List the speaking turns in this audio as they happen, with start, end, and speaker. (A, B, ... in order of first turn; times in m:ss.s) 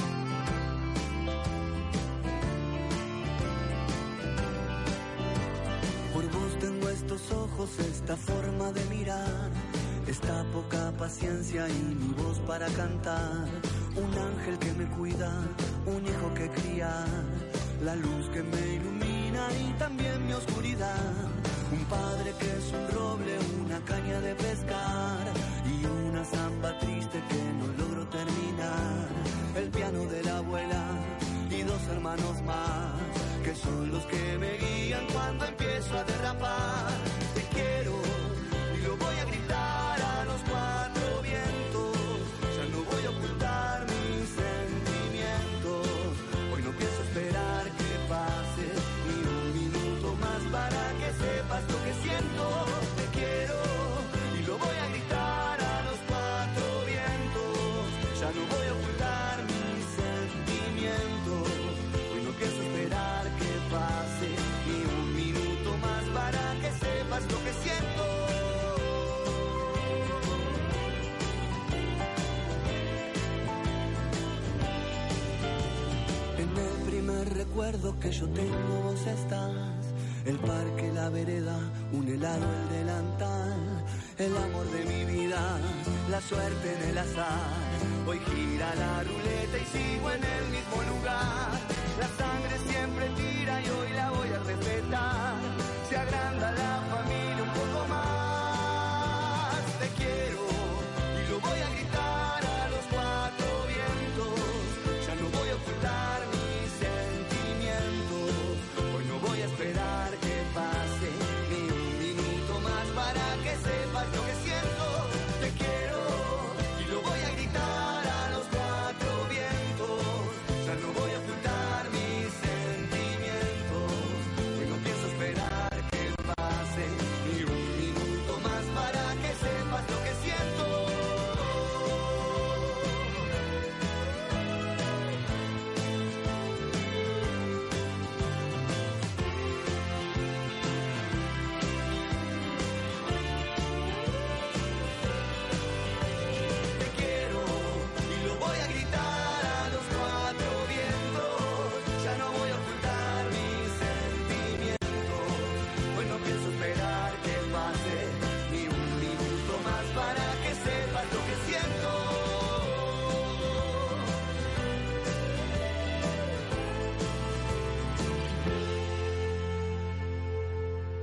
0:06.1-1:09.0 A
1:16.4-2:12.9 A
2:26.7-2:44.0 A